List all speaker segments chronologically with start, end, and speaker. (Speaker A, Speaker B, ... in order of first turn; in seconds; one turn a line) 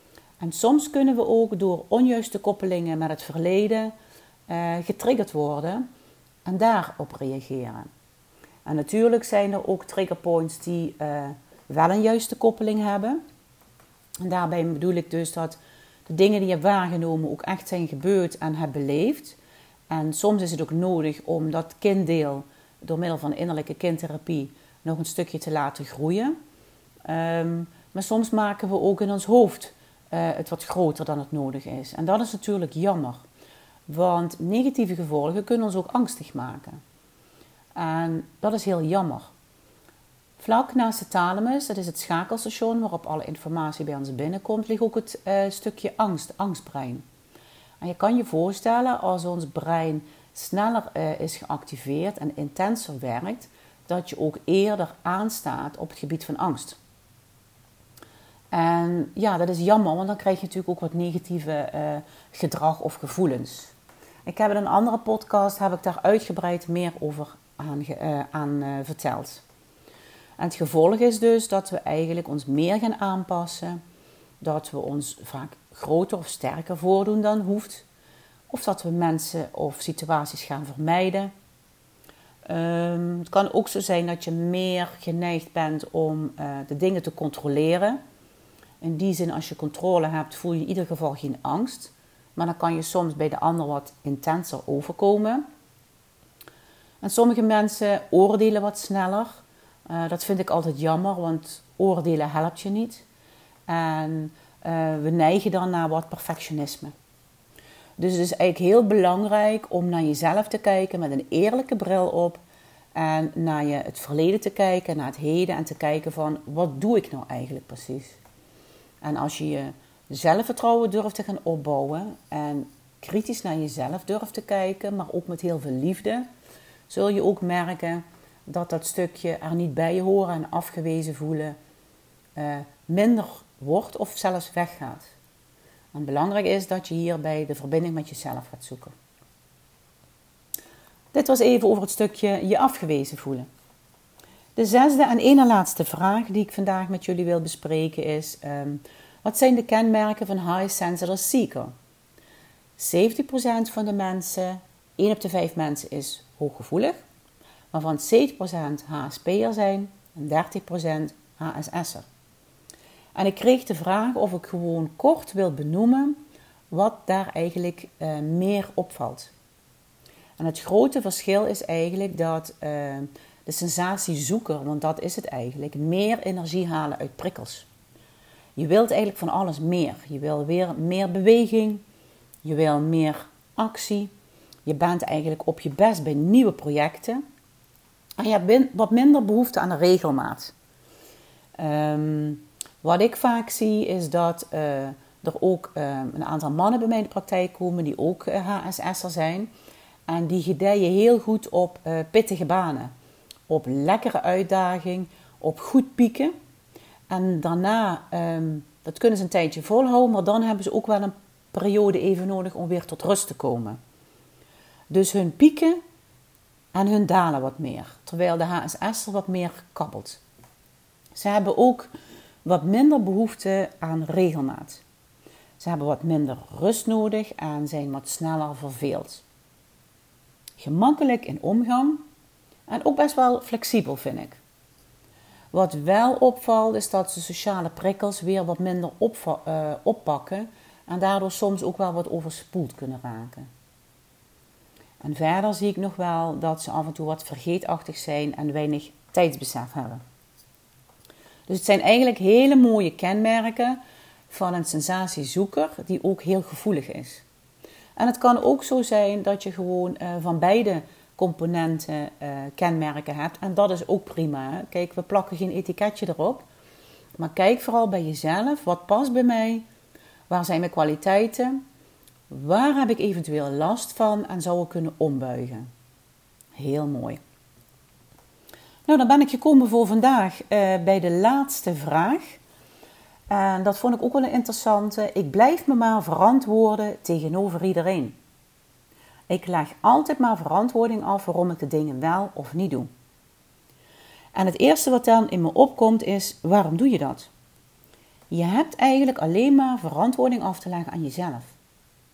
Speaker A: 0.4-3.9
Speaker A: 4.5-5.8
Speaker A: 6.5-7.9
Speaker A: 8.6-13.2
Speaker A: 14.2-15.6
Speaker A: 16.1-19.4
Speaker A: 19.9-26.4
Speaker A: 27.1-33.2
Speaker A: 33.9-36.8
Speaker A: 37.8-39.3
Speaker A: 40.4-47.0
Speaker A: 47.8-56.8
Speaker A: 58.5-63.7
Speaker A: 64.3-69.4
Speaker A: 70.4-73.8
Speaker A: 74.4-77.8
Speaker A: 78.5-81.3
Speaker A: 82.5-88.0
Speaker A: 88.8-95.4
Speaker A: 97.0-103.0
Speaker A: 103.7-106.9
Speaker A: 108.0-112.4
Speaker A: 113.0-118.2
Speaker A: 119.0-126.3
Speaker A: 126.9-131.6
Speaker A: 132.4-135.1
Speaker A: 135.9-138.9
Speaker A: 141.1-143.5
Speaker A: 144.6-151.7
Speaker A: 152.8-157.0
Speaker A: 157.7-162.1
Speaker A: 163.1-166.2
Speaker A: 166.7-169.3
Speaker A: 170.4-177.7
Speaker A: 178.6-181.8
Speaker A: 182.4-184.1
Speaker A: 184.7-187.2
Speaker A: 188.2-190.5
Speaker A: 191.6-199.5
Speaker A: 200.1-202.9
Speaker A: 203.5-206.3
Speaker A: 207.1-213.8
Speaker A: 214.9-215.8
Speaker A: 216.7-220.2
Speaker A: 221.1-221.9
Speaker A: 222.4-224.8
Speaker A: 225.6-229.2
Speaker A: 230.6-232.1
Speaker A: 232.7-234.4
Speaker A: 235.5-243.5
Speaker A: 245.0-250.0
Speaker A: 251.5-253.8
Speaker A: 254.3-257.2
Speaker A: 258.0-266.5
Speaker A: 267.2-269.6
Speaker A: 270.3-271.6
Speaker A: 272.3-275.7
Speaker A: 276.6-277.2
Speaker A: 278.9-282.4
Speaker A: 283.3-288.2
Speaker A: 289.3-292.9
Speaker A: 294.3-297.3
Speaker A: 298.3-301.6